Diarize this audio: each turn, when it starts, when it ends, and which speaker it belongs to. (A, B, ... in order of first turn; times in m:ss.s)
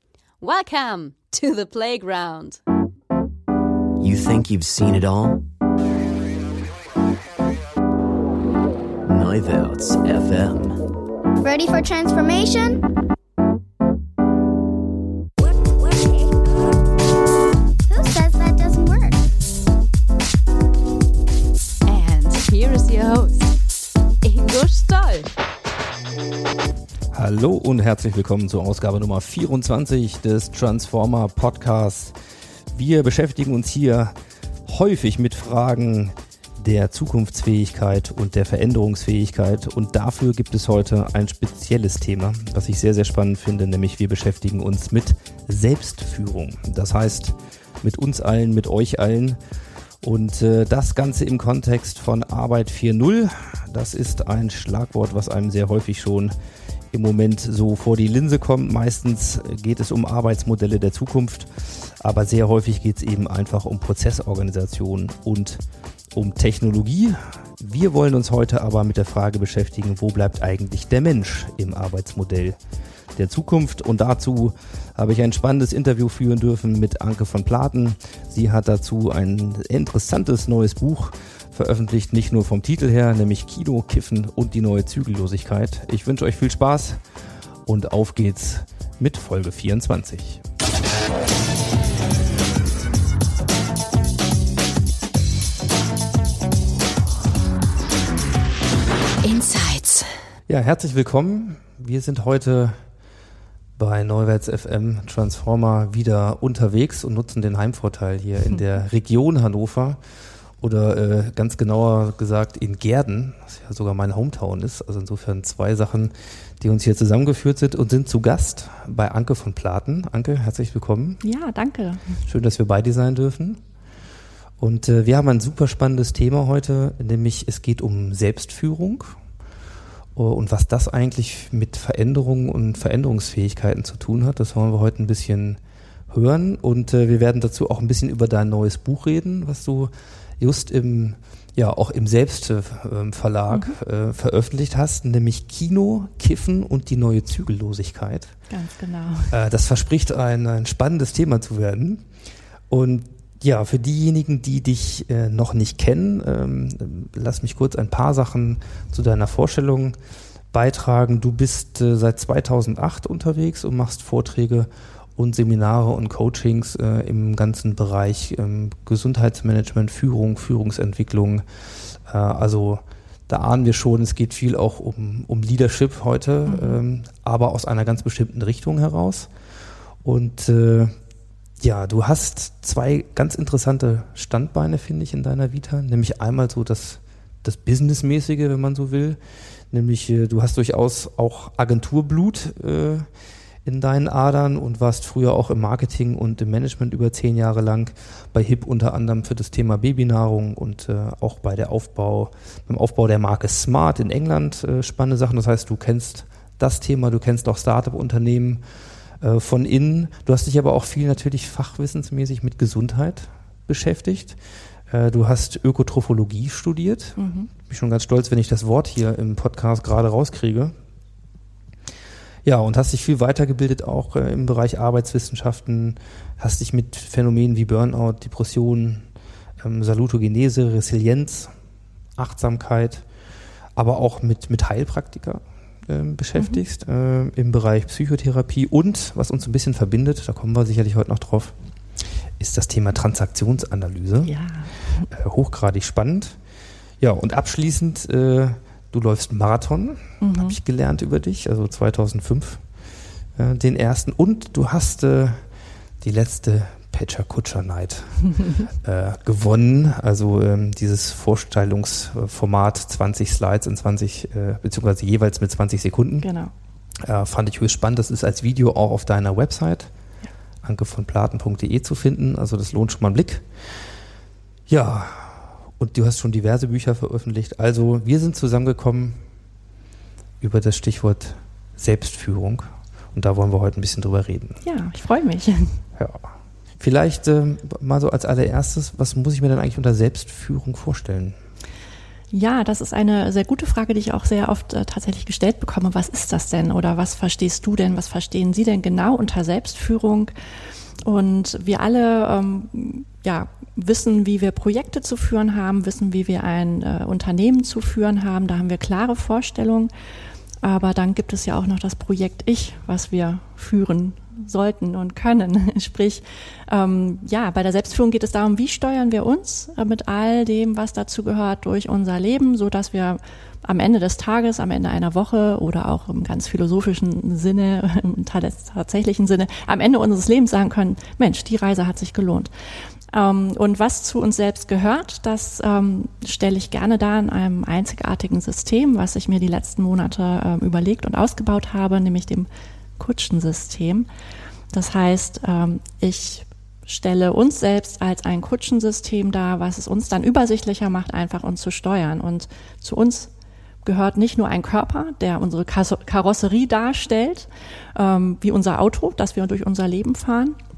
0:00.4-0:02.6 A
0:04.0-0:05.4 B
0:09.0-0:10.8 B
0:11.4-0:12.8 C
0:17.9-0:19.2 C
0:21.8-0:23.5 A
0:24.2-0:25.3 A
0:27.1-0:32.1 D
0:32.7-0:34.1 D
0:34.6-0:49.4 D
0:50.0-0:56.3 D
0:56.9-1:05.6 D
1:06.1-1:12.6 D
1:13.2-1:27.0 D
1:27.6-1:30.4 D
1:39.2-1:40.1 A
1:40.5-1:42.8 D
1:43.8-1:50.0 D
1:50.6-2:01.2 D
2:01.2-2:02.1 E
2:02.2-2:03.6 D
2:04.6-2:09.1 D
2:10.2-2:15.6 D
2:16.1-2:28.3 D
2:23.5-2:23.8 E
2:28.5-2:29.4 E
2:29.3-2:32.0 D
2:32.7-2:40.0 D
2:40.5-2:51.4 D
2:52.0-2:59.3 D
2:56.5-2:56.8 E
3:00.0-3:00.9 D
3:01.6-3:09.2 D
3:09.7-3:13.1 D
3:13.6-3:28.6 D
3:29.2-3:34.4 D
3:34.9-3:40.7 D
3:37.2-3:37.5 E
3:42.4-3:49.0 D
3:49.6-3:51.5 D
3:52.2-3:53.0 D
3:53.8-4:01.5 D
3:56.4-3:56.6 E
4:02.4-4:04.3 D
4:04.2-4:05.0 E
4:05.1-4:06.4 D
4:07.0-4:12.6 D
4:10.2-4:10.6 E
4:13.4-4:15.4 D
4:16.0-4:26.3 D
4:26.2-4:26.5 E
4:27.0-4:29.9 D
4:30.6-4:33.5 D
4:34.7-4:39.2 D
4:40.4-4:44.6 D
4:44.6-4:45.8 E
4:46.0-4:51.4 D
4:52.3-5:00.3 E
5:01.0-5:09.9 E
5:10.6-5:32.5 E
5:33.1-5:44.1 E
5:44.7-5:53.3 E
5:53.8-6:00.6 E